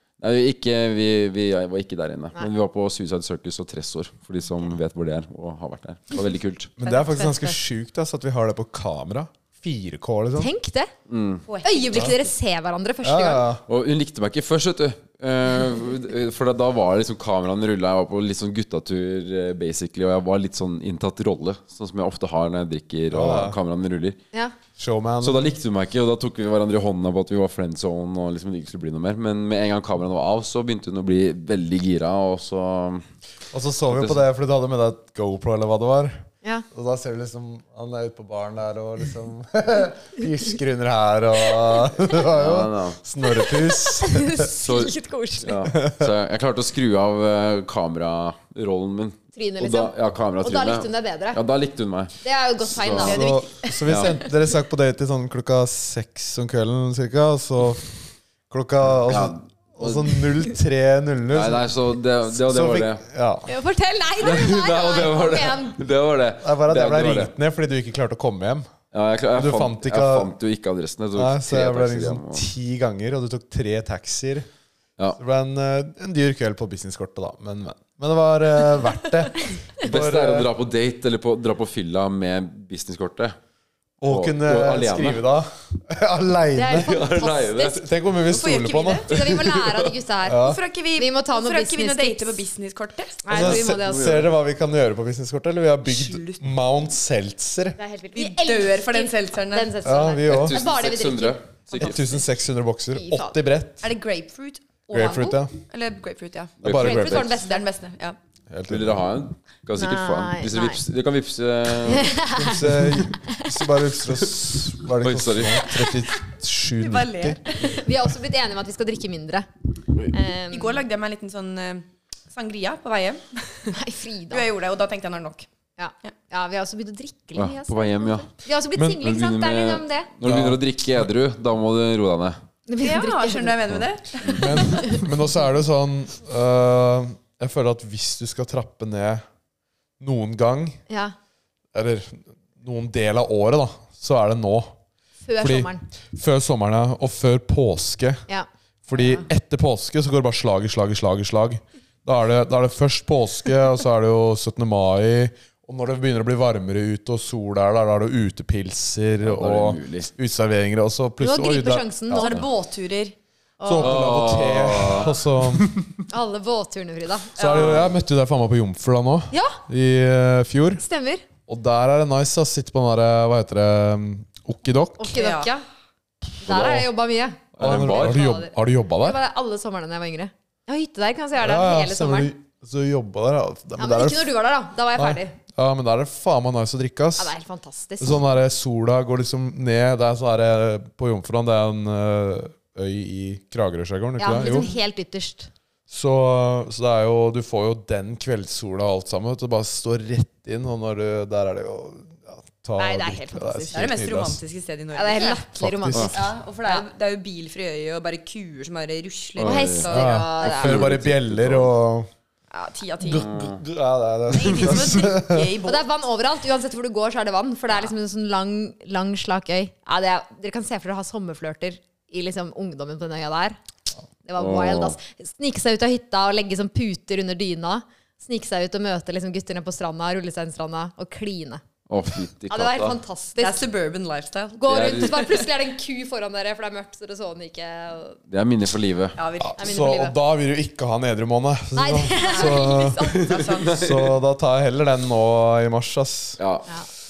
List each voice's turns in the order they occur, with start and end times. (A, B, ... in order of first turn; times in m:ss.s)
0:00.2-0:06.7 A
0:06.8-0:10.5 B
0:06.9-0:07.4 C
0:10.4-0:10.9 D
0:11.1-0:11.4 A
0:11.5-0:12.3 C
0:11.6-0:13.5 D
0:13.0-0:13.6 B
0:13.7-0:24.2 A
0:23.1-0:23.6 B
0:24.8-0:25.5 B
0:25.2-0:33.1 A
0:33.5-0:44.5 B
0:33.9-0:34.2 A
0:42.3-0:43.0 A
0:43.2-0:45.6 D
0:44.6-0:53.2 A
0:45.7-0:46.1 B
0:49.4-0:51.4 D
0:52.2-0:54.3 D
0:53.0-0:58.0 B
0:53.9-0:54.2 A
0:58.5-1:01.7 B
0:59.1-1:00.2 A
1:01.3-1:03.0 A
1:02.3-1:03.5 B
1:03.5-1:05.8 D
1:04.2-1:07.3 A
1:06.4-1:08.7 B
1:08.9-1:12.5 A
1:09.4-1:10.3 B
1:11.2-1:14.5 B
1:15.2-1:20.5 B
1:19.8-1:23.4 A
1:24.0-1:27.1 B
1:24.1-1:25.2 A
1:26.6-1:27.8 D
1:26.8-1:27.8 A
1:27.7-1:29.1 B
1:28.3-1:29.1 C
1:29.1-1:32.4 D
1:29.1-1:29.9 A
1:30.2-1:30.6 B
1:30.4-1:33.3 C
1:33.2-1:34.2 D
1:33.3-1:37.8 B
1:33.3-1:34.3 A
1:35.8-1:36.4 C
1:37.8-1:42.1 D
1:38.2-1:39.7 C
1:39.8-1:40.6 B
1:40.3-1:41.9 A
1:41.8-1:43.9 B
1:43.0-1:43.4 D
1:43.8-1:48.2 C
1:44.9-1:45.5 B
1:46.6-1:47.2 A
1:46.6-1:47.4 B
1:46.7-1:47.6 D
1:48.5-1:49.0 B
1:48.7-1:52.2 A
1:49.8-1:50.8 D
1:51.9-1:53.4 D
1:52.3-1:57.4 B
1:55.0-1:55.7 A
1:56.8-1:57.8 C
1:57.6-2:00.8 D
2:00.5-2:03.8 C
2:03.7-2:04.5 D
2:04.3-2:05.5 C
2:05.8-2:10.1 D
2:07.4-2:08.3 A
2:09.0-2:12.4 A
2:10.2-2:11.0 B
2:12.7-2:13.6 D
2:12.8-2:15.0 C
2:14.3-2:19.2 B
2:20.0-2:20.8 B
2:20.9-2:21.2 D
2:21.7-2:24.8 B
2:25.2-2:25.8 D
2:25.4-2:28.2 B
2:28.3-2:29.2 D
2:28.9-2:42.4 B
2:39.2-2:40.1 A
2:41.2-2:42.4 D
2:42.1-2:43.2 C
2:43.6-2:44.0 D
2:43.6-2:45.7 B
2:43.8-2:45.9 A
2:46.1-2:47.8 D
2:47.4-2:47.9 C
2:47.4-2:50.8 B
2:49.3-2:49.6 D
2:50.8-2:51.2 D
2:51.5-2:55.2 B
2:55.0-2:55.7 D
2:55.1-2:55.5 C
2:56.4-3:02.3 D
2:56.4-2:56.9 B
2:57.6-2:58.2 A
2:57.6-2:59.2 B
3:01.4-3:04.3 B
3:03.8-3:05.4 D
3:05.0-3:07.3 B
3:07.2-3:08.2 D
3:08.0-3:14.7 B
3:14.2-3:15.5 D
3:15.9-3:24.4 B
3:22.8-3:23.9 D
3:23.7-3:25.4 C
3:24.9-3:26.9 D
3:25.6-3:26.2 B
3:26.1-3:30.2 C
3:29.4-3:31.7 A
3:29.4-3:30.9 D
3:29.9-3:32.1 B
3:32.5-3:33.3 C
3:33.0-3:35.6 B
3:33.1-3:33.6 A
3:34.3-3:35.9 C
3:35.6-3:43.6 D
3:44.2-3:51.6 D
3:44.4-3:45.0 A
3:51.9-3:53.0 A
3:52.5-3:53.7 D
3:53.4-3:55.5 C
3:54.6-3:58.2 D
3:54.7-3:55.2 A
3:58.3-3:59.2 A
3:59.2-4:00.1 C
3:59.4-4:03.1 B
3:59.6-4:00.1 D
4:01.8-4:03.4 D
4:02.3-4:03.9 C
4:03.1-4:04.2 A
4:03.7-4:06.4 B
4:06.4-4:06.7 A